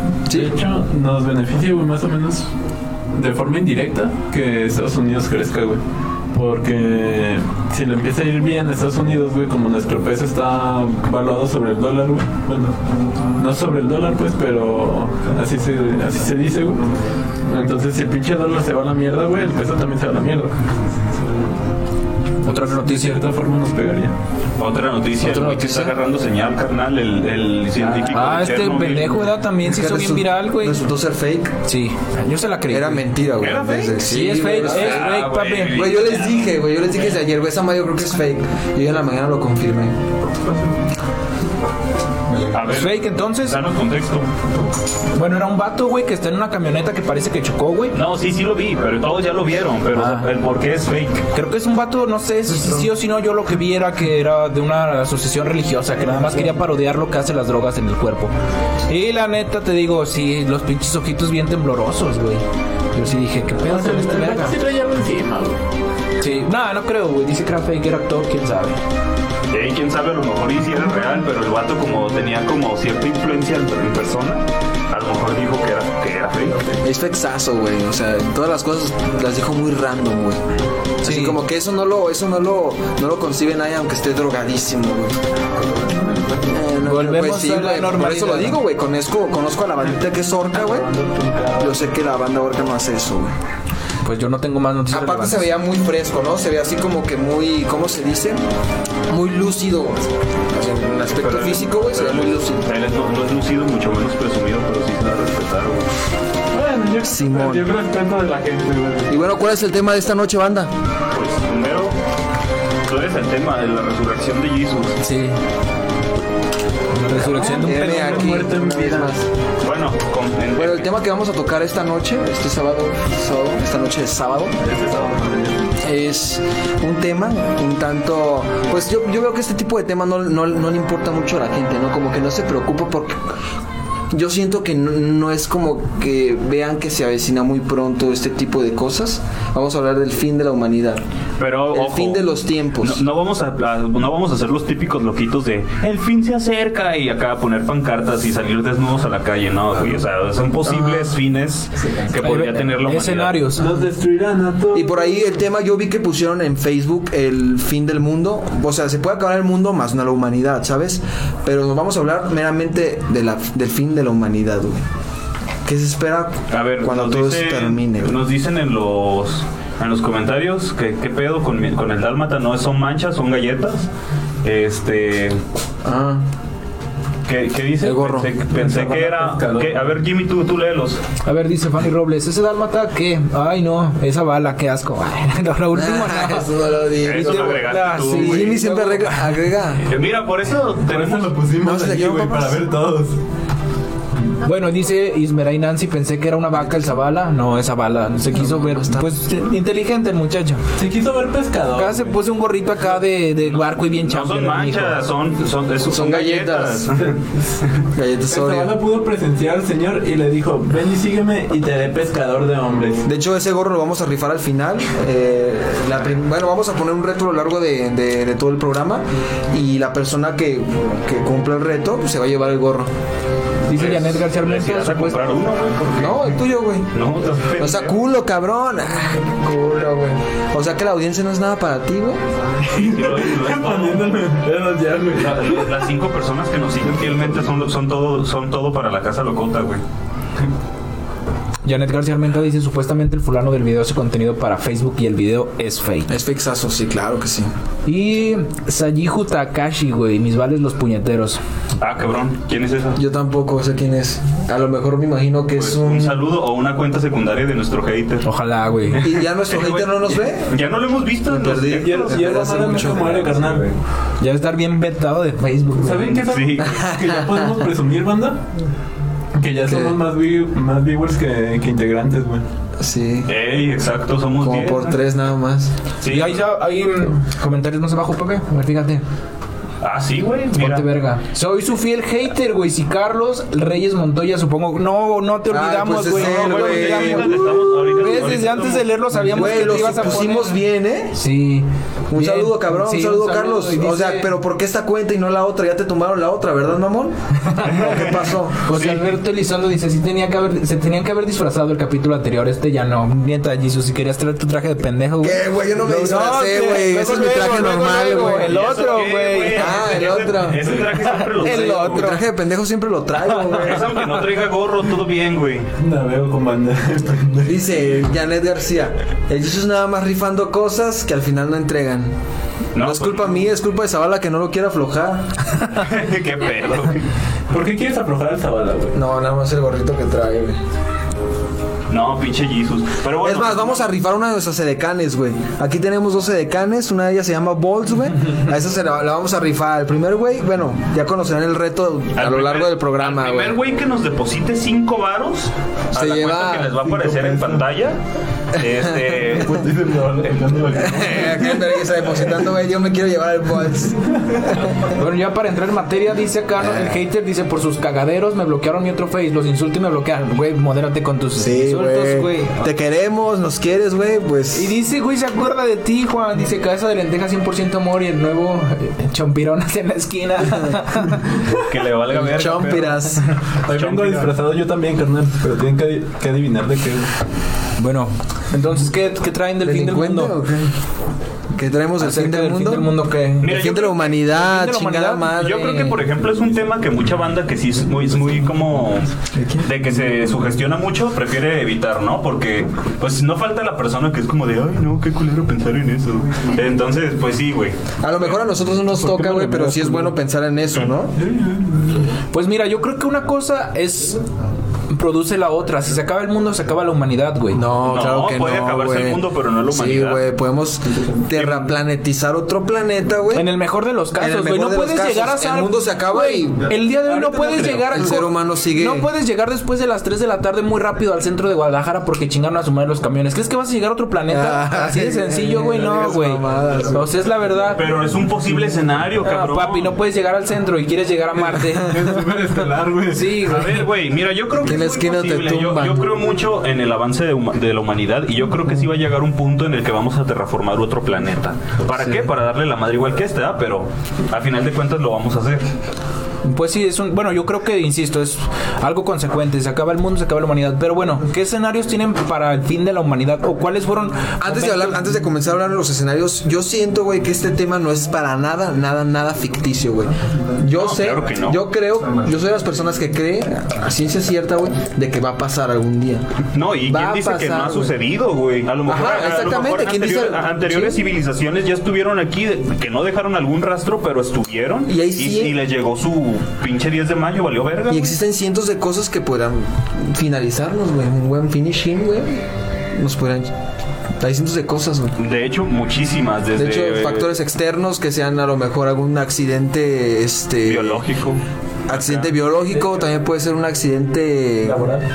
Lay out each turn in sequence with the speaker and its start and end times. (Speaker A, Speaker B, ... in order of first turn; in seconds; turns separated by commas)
Speaker A: 0.3-0.5, Speaker B: 0.3-2.5, Speaker B: 3.1-5.8, Speaker B: 6.3-12.8, Speaker B: 13.3-21.5, Speaker C: 22.4-23.2, Speaker B: 22.4-24.1, Speaker D: 24.6-29.3, Speaker A: 25.2-25.9, Speaker C: 28.1-30.9, Speaker A: 29.6-31.6, Speaker C: 31.6-33.0, Speaker A: 32.7-35.1, Speaker D: 33.4-36.4, Speaker C: 34.0-35.9, Speaker A: 35.7-40.0, Speaker D: 42.5-44.3, Speaker C: 42.6-43.6, Speaker C: 45.1-48.0, Speaker D: 47.9-51.2, Speaker C: 49.9-50.3, Speaker C: 51.3-58.3, Speaker C: 58.9-64.5, Speaker B: 63.6-65.6, Speaker C: 66.2-68.8, Speaker D: 69.5-76.7, Speaker A: 76.8-80.4, Speaker A: 81.0-85.2, Speaker C: 81.0-81.4, Speaker B: 85.8-86.4, Speaker A: 86.5-90.9, Speaker C: 86.8-88.5, Speaker B: 90.5-91.8, Speaker A: 91.6-93.3, Speaker C: 94.0-95.5, Speaker A: 94.9-98.4, Speaker A: 99.1-102.7, Speaker D: 101.2-105.9, Speaker B: 106.5-109.1, Speaker A: 107.0-107.7, Speaker A: 109.1-110.7, Speaker D: 111.1-112.0, Speaker D: 112.8-115.0, Speaker C: 115.0-115.3, Speaker C: 116.9-118.0, Speaker A: 117.1-119.3, Speaker B: 117.2-119.1, Speaker D: 119.6-120.9, Speaker A: 120.5-124.5, Speaker B: 124.6-125.7, Speaker A: 125.8-133.2, Speaker A: 134.1-141.0, Speaker D: 141.4-153.5, Speaker A: 141.7-143.0, Speaker A: 150.6-151.1, Speaker C: 152.2-153.7, Speaker B: 153.6-155.3, Speaker A: 154.7-164.8, Speaker A: 165.6-168.2, Speaker D: 166.5-173.9, Speaker D: 174.4-175.4, Speaker A: 175.8-176.2, Speaker D: 177.2-181.0, Speaker A: 177.8-178.4, Speaker B: 178.5-179.9, Speaker C: 181.2-186.5, Speaker A: 185.7-189.8, Speaker D: 187.0-188.8, Speaker C: 187.1-189.2, Speaker D: 189.8-191.3, Speaker B: 190.8-193.2, Speaker A: 191.6-192.7, Speaker C: 194.4-200.6, Speaker A: 198.3-199.1, Speaker B: 200.8-202.1, Speaker C: 201.8-205.0, Speaker D: 203.4-207.1, Speaker A: 205.8-207.0, Speaker B: 207.1-207.6, Speaker A: 207.9-208.8, Speaker B: 208.3-213.0, Speaker A: 213.0-222.9, Speaker C: 223.7-225.4, Speaker D: 223.7-228.0, Speaker A: 225.9-226.9, Speaker A: 227.6-232.2, Speaker D: 232.7-234.2, Speaker B: 232.7-235.7, Speaker D: 235.1-239.8, Speaker C: 241.6-246.1, Speaker A: 246.1-247.5, Speaker C: 247.8-251.4, Speaker D: 251.8-253.0, Speaker A: 252.9-256.2, Speaker D: 255.6-258.3, Speaker C: 258.2-259.0, Speaker D: 258.9-263.2, Speaker A: 259.0-260.6, Speaker A: 261.2-263.6, Speaker B: 261.8-263.7, Speaker C: 264.2-266.2, Speaker B: 265.8-268.4, Speaker D: 266.1-266.7, Speaker A: 266.6-267.5, Speaker B: 269.4-272.4, Speaker A: 269.7-270.0, Speaker A: 272.8-273.3, Speaker D: 273.3-275.0, Speaker A: 274.4-275.7, Speaker D: 276.0-276.4, Speaker C: 276.0-279.0, Speaker D: 279.8-280.9, Speaker C: 280.6-290.6, Speaker A: 285.5-287.3, Speaker D: 286.1-290.1, Speaker A: 289.1-291.2, Speaker C: 291.1-294.3, Speaker A: 292.1-297.1, Speaker D: 297.6-299.0, Speaker A: 297.6-298.7, Speaker C: 298.6-309.8, Speaker A: 305.2-308.6, Speaker D: 308.4-312.1, Speaker A: 309.5-310.9, Speaker C: 311.0-312.2, Speaker A: 311.4-313.9, Speaker D: 313.5-315.7, Speaker B: 315.8-318.1, Speaker A: 317.4-322.1, Speaker D: 322.7-323.4, Speaker A: 322.8-325.3, Speaker D: 325.7-327.1, Speaker B: 327.5-328.9, Speaker A: 328.9-330.6, Speaker D: 331.9-333.9, Speaker A: 333.2-343.6, Speaker D: 342.1-348.0, Speaker A: 345.9-346.8, Speaker B: 346.8-347.6, Speaker D: 348.5-349.6, Speaker B: 349.3-351.6, Speaker A: 350.7-354.8, Speaker C: 354.8-362.7, Speaker A: 356.6-357.0, Speaker A: 361.4-364.8, Speaker C: 364.5-371.2, Speaker D: 371.6-373.1, Speaker A: 372.1-373.2, Speaker B: 373.6-377.1, Speaker D: 373.7-374.3, Speaker C: 377.8-380.4, Speaker A: 379.6-380.7, Speaker A: 381.5-386.0, Speaker C: 382.0-383.5, Speaker D: 383.4-384.2, Speaker C: 384.3-385.3, Speaker D: 385.3-398.4, Speaker A: 389.3-389.7, Speaker A: 398.0-401.1, Speaker B: 398.9-400.1, Speaker B: 401.2-402.1, Speaker C: 402.3-404.2, Speaker C: 404.9-407.6, Speaker A: 407.5-413.5, Speaker D: 407.8-410.2, Speaker D: 411.3-411.8, Speaker C: 413.3-427.8, Speaker A: 414.1-416.8, Speaker B: 417.0-417.9, Speaker A: 417.8-419.1, Speaker A: 424.3-427.1, Speaker D: 427.7-429.9, Speaker C: 429.2-432.2, Speaker B: 431.4-433.5, Speaker C: 433.1-433.9, Speaker D: 433.5-445.6, Speaker A: 434.6-436.0, Speaker C: 446.4-455.1, Speaker A: 454.4-466.2, Speaker D: 460.7-461.6, Speaker D: 466.5-478.1, Speaker A: 466.9-467.9, Speaker A: 468.9-471.0, Speaker A: 474.9-475.6, Speaker A: 477.9-483.5, Speaker A: 484.2-485.1, Speaker D: 485.2-487.3, Speaker A: 486.5-491.0, Speaker D: 490.6-492.3, Speaker A: 491.9-494.9, Speaker B: 492.7-493.0, Speaker B: 494.6-495.0